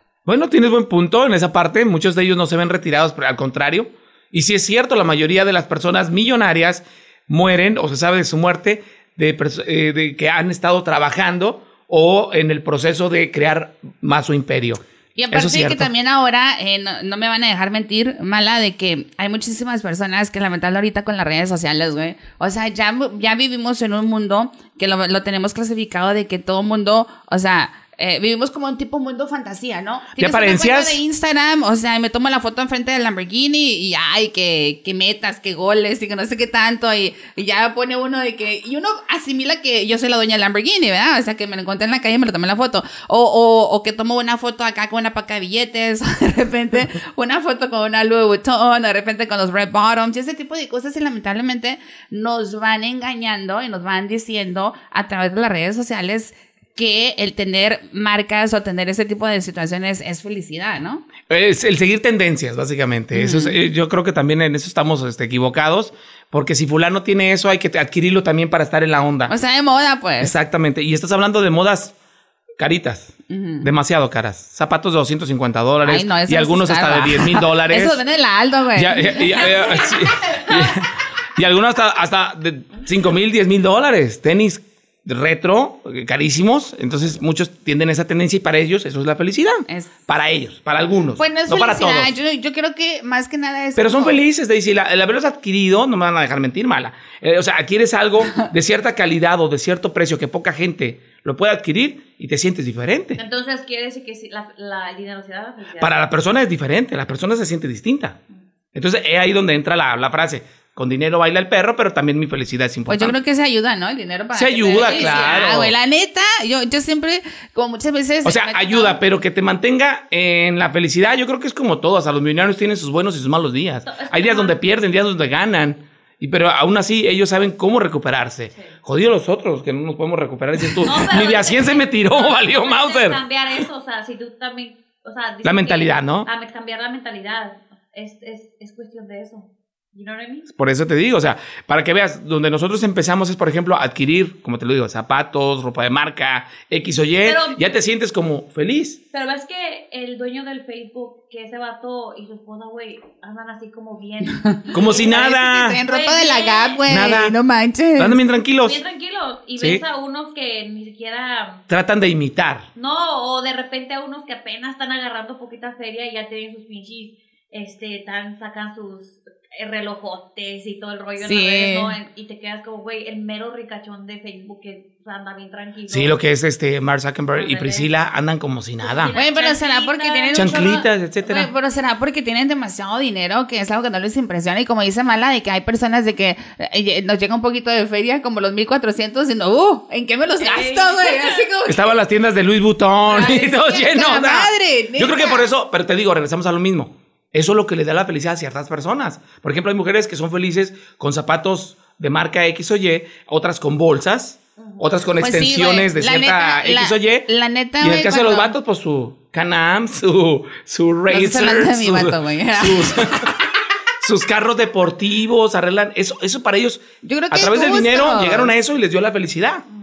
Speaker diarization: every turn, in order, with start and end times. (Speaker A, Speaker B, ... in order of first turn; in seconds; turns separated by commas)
Speaker A: 0.3-15.9, Speaker B: 15.2-61.1, Speaker A: 30.2-31.0, Speaker A: 61.3-69.3, Speaker B: 63.1-63.6, Speaker B: 69.3-70.3, Speaker A: 70.2-72.0, Speaker A: 72.6-78.0, Speaker B: 73.3-73.7, Speaker B: 75.8-79.9, Speaker A: 78.8-92.1, Speaker C: 79.5-80.5, Speaker B: 91.2-94.2, Speaker A: 93.8-103.2, Speaker C: 103.2-105.9, Speaker A: 105.8-108.2, Speaker A: 108.7-113.1, Speaker B: 112.9-119.0, Speaker A: 114.3-115.7, Speaker C: 114.8-115.5, Speaker A: 118.2-133.2, Speaker C: 123.9-124.6, Speaker C: 130.8-140.5, Speaker A: 135.4-136.3, Speaker A: 140.5-149.0, Speaker C: 147.2-147.7, Speaker C: 149.1-155.2, Speaker B: 154.2-158.2, Speaker A: 154.7-155.8, Speaker C: 155.8-156.8, Speaker A: 156.9-157.3, Speaker A: 158.0-158.8, Speaker C: 158.6-161.6, Speaker A: 159.6-159.8, Speaker A: 161.7-162.7, Speaker C: 162.8-176.2, Speaker B: 171.2-171.9, Speaker A: 175.9-179.2, Speaker C: 177.3-177.9, Speaker C: 178.8-180.6, Speaker B: 179.2-192.0, Speaker A: 180.3-181.5, Speaker C: 190.4-191.5, Speaker A: 191.7-207.3, Speaker B: 193.1-195.5, Speaker C: 204.6-204.9, Speaker B: 205.2-208.5, Speaker A: 207.8-213.3, Speaker B: 211.1-213.5, Speaker A: 214.0-219.6, Speaker B: 217.0-218.5